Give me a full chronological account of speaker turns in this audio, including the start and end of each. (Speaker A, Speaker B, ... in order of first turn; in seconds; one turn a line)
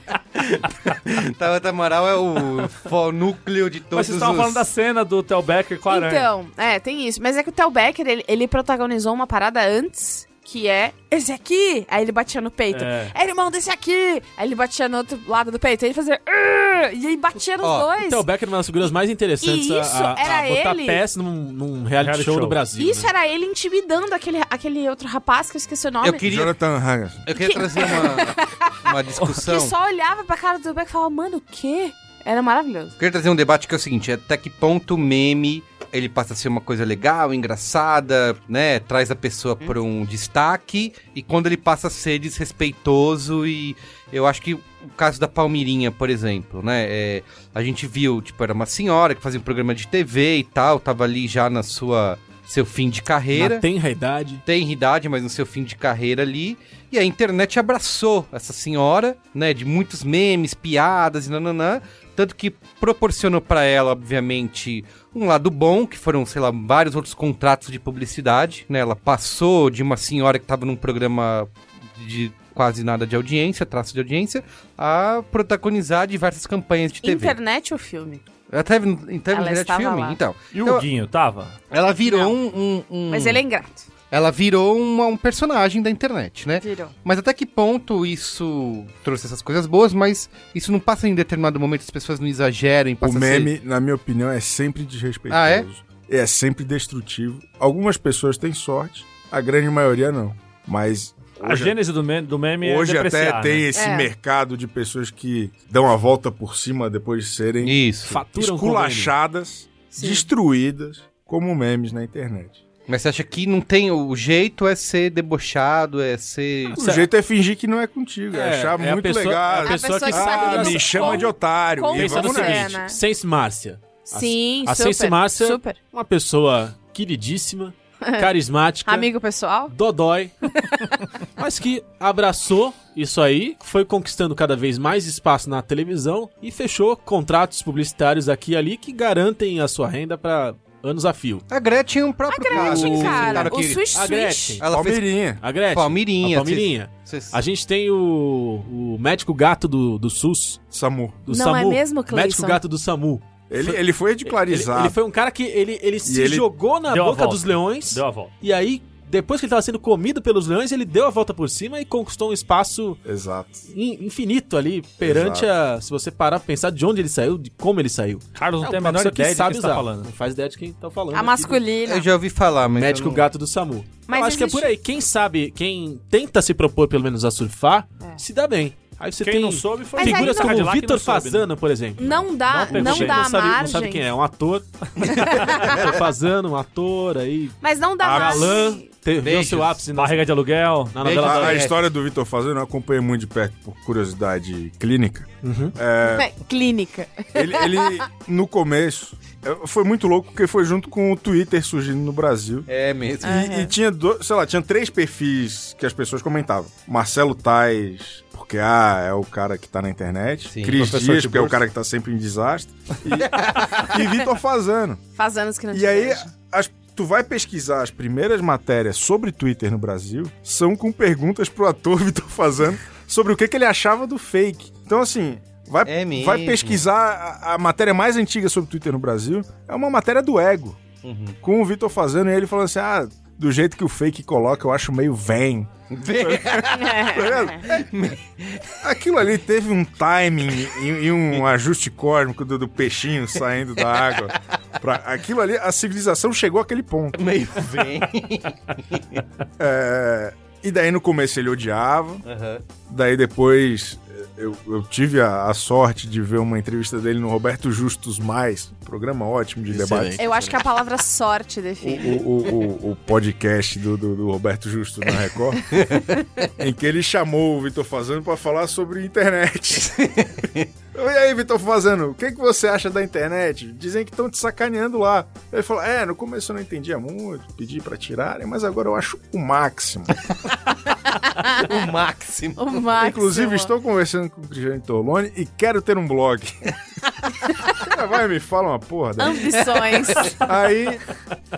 Speaker A: 0.3-4.6
Speaker B: 3.9-6.3
Speaker C: 5.9-18.2
Speaker B: 12.7-13.1
Speaker A: 17.6-17.9
Speaker D: 18.0-23.1
Speaker C: 19.4-21.0
Speaker B: 22.0-22.6
Speaker C: 22.8-26.2
Speaker A: 26.0-26.5
Speaker E: 26.2-27.2
Speaker A: 27.2-29.7
Speaker C: 27.3-32.9
Speaker A: 33.0-53.6
Speaker D: 53.3-54.4
Speaker A: 54.4-77.4
Speaker C: 77.0-78.2
Speaker A: 78.5-80.8
Speaker C: 79.3-80.2
Speaker B: 80.5-81.5
Speaker A: 81.7-83.4
Speaker C: 82.0-82.3
Speaker C: 83.1-83.8
Speaker A: 84.1-93.5
Speaker C: 86.6-86.9
Speaker E: 93.0-101.7
Speaker A: 95.3-95.7
Speaker B: 101.4-103.7
Speaker E: 102.6-107.8
Speaker C: 103.7-104.1
Speaker A: 107.6-108.2
Speaker D: 108.0-109.1
Speaker E: 108.3-112.6
Speaker C: 109.9-110.3
Speaker A: 112.9-116.8
Speaker E: 116.8-122.8
Speaker D: 116.8-117.1
Speaker D: 118.3-121.2
Speaker C: 119.6-123.0
Speaker D: 121.9-129.1
Speaker C: 124.1-125.8
Speaker C: 128.8-129.7
Speaker D: 129.7-130.3
Speaker C: 130.6-131.1
Speaker D: 131.4-141.4
Speaker A: 141.5-143.9
Speaker C: 142.3-144.6
Speaker D: 142.5-144.6
Speaker A: 144.6-147.4
Speaker E: 144.7-145.4
Speaker D: 145.4-150.6
Speaker E: 150.7-151.2
Speaker D: 151.2-163.0
Speaker C: 151.3-152.6
Speaker E: 153.5-155.0
Speaker E: 156.0-156.5
Speaker B: 156.9-158.3
Speaker E: 163.0-163.7
Speaker D: 163.7-171.7
Speaker E: 165.0-165.5
Speaker B: 168.3-170.1
Speaker C: 171.1-172.1
Speaker A: 171.8-173.3
Speaker D: 172.7-190.3
Speaker C: 174.1-174.7
Speaker B: 179.2-181.4
Speaker C: 180.0-180.6
Speaker C: 182.0-184.1
Speaker B: 182.5-183.2
Speaker C: 185.1-185.8
Speaker C: 187.6-188.9
Speaker E: 188.0-188.6
Speaker A: 189.2-189.8
Speaker B: 189.9-191.6
Speaker D: 190.9-191.6
Speaker A: 191.0-191.8
Speaker E: 191.2-196.3
Speaker D: 195.4-195.8
Speaker C: 196.0-198.0
Speaker E: 197.3-202.7
Speaker A: 202.7-203.4
Speaker E: 203.2-215.0
Speaker C: 203.2-203.7
Speaker A: 210.5-211.0
Speaker D: 210.8-211.6
Speaker A: 213.1-214.0
Speaker C: 215.2-216.3
Speaker E: 215.7-230.8
Speaker A: 225.8-226.8
Speaker A: 231.0-231.4
Speaker E: 231.4-237.8
Speaker A: 235.9-238.8
Speaker C: 236.8-237.6
Speaker E: 238.8-247.2
Speaker A: 247.1-249.2
Speaker E: 249.6-252.2
Speaker A: 252.2-252.6
Speaker E: 252.9-260.2
Speaker D: 259.7-260.6
Speaker C: 260.2-262.2
Speaker E: 261.8-265.8
Speaker A: 265.8-266.1
Speaker E: 266.6-270.2
Speaker A: 270.2-270.7
Speaker E: 270.9-280.1
Speaker C: 281.4-281.7
Speaker A: 281.4-282.8
Speaker C: 282.6-283.7
Speaker E: 283.0-286.6
Speaker E: 287.7-291.0
Speaker C: 289.2-290.4
Speaker A: 290.2-290.9